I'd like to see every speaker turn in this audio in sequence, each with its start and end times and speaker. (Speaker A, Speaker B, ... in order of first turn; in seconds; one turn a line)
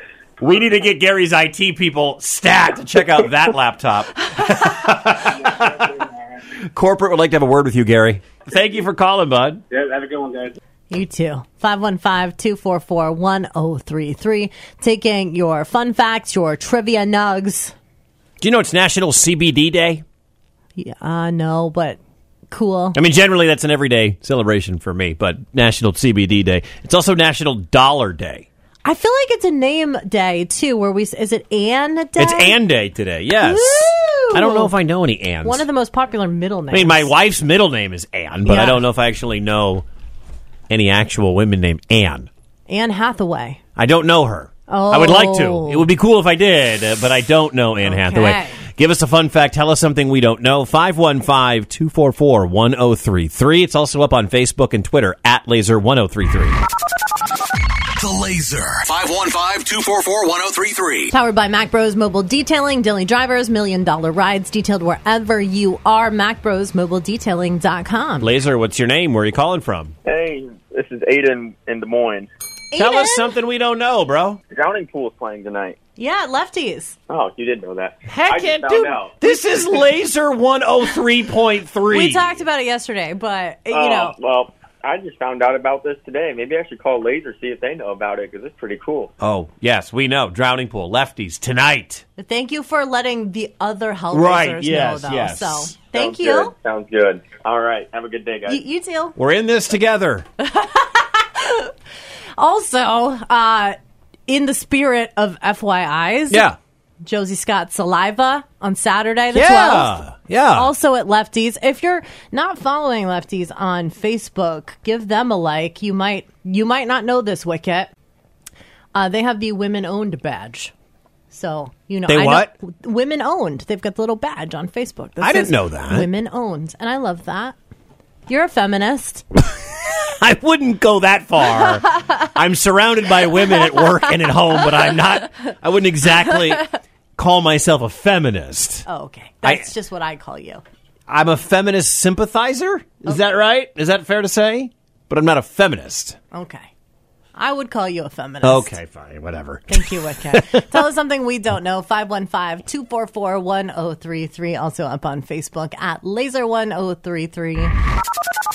Speaker A: 0.4-5.9
Speaker B: 5.2-6.4
Speaker A: 6.6-9.6
Speaker B: 9.7-10.5
Speaker C: 10.9-17.7
Speaker A: 18.4-20.0
Speaker C: 20.8-22.0
Speaker C: 22.5-23.0
Speaker A: 22.9-28.5
Speaker C: 28.8-32.6
Speaker A: 32.2-35.6
Speaker C: 33.4-34.7
Speaker C: 35.4-37.1
Speaker A: 36.7-39.9
Speaker C: 38.4-38.8
Speaker A: 40.7-42.3
Speaker C: 42.7-43.6
Speaker A: 43.8-56.6
Speaker C: 44.7-45.9
Speaker C: 47.8-48.6
Speaker D: 57.9-61.1
Speaker C: 61.1-68.3
Speaker A: 68.2-69.9
Speaker E: 70.0-72.3
Speaker C: 72.7-73.3
Speaker A: 72.8-74.4
Speaker E: 74.5-75.8
Speaker C: 76.0-77.0
Speaker E: 77.1-79.2
Speaker A: 78.1-82.3
Speaker C: 81.9-84.2
Speaker E: 83.7-89.1
Speaker A: 89.2-92.0
Speaker C: 92.2-96.5
Speaker A: 94.1-95.8
Speaker E: 95.9-98.6
Speaker C: 98.5-99.2
Speaker A: 99.2-100.2
Speaker C: 100.4-101.7
Speaker C: 102.4-103.8
Speaker C: 104.3-106.4
Speaker A: 106.3-106.6
Speaker C: 107.0-117.9
Speaker A: 109.3-110.7
Speaker C: 118.9-120.7
Speaker C: 121.3-127.5
Speaker A: 122.1-122.5
Speaker A: 125.2-126.1
Speaker C: 128.3-129.2
Speaker A: 129.5-138.8
Speaker C: 138.8-140.6
Speaker A: 139.4-139.7
Speaker A: 141.1-146.2
Speaker C: 146.3-146.7
Speaker C: 147.3-148.8
Speaker A: 148.4-150.8
Speaker C: 149.7-157.7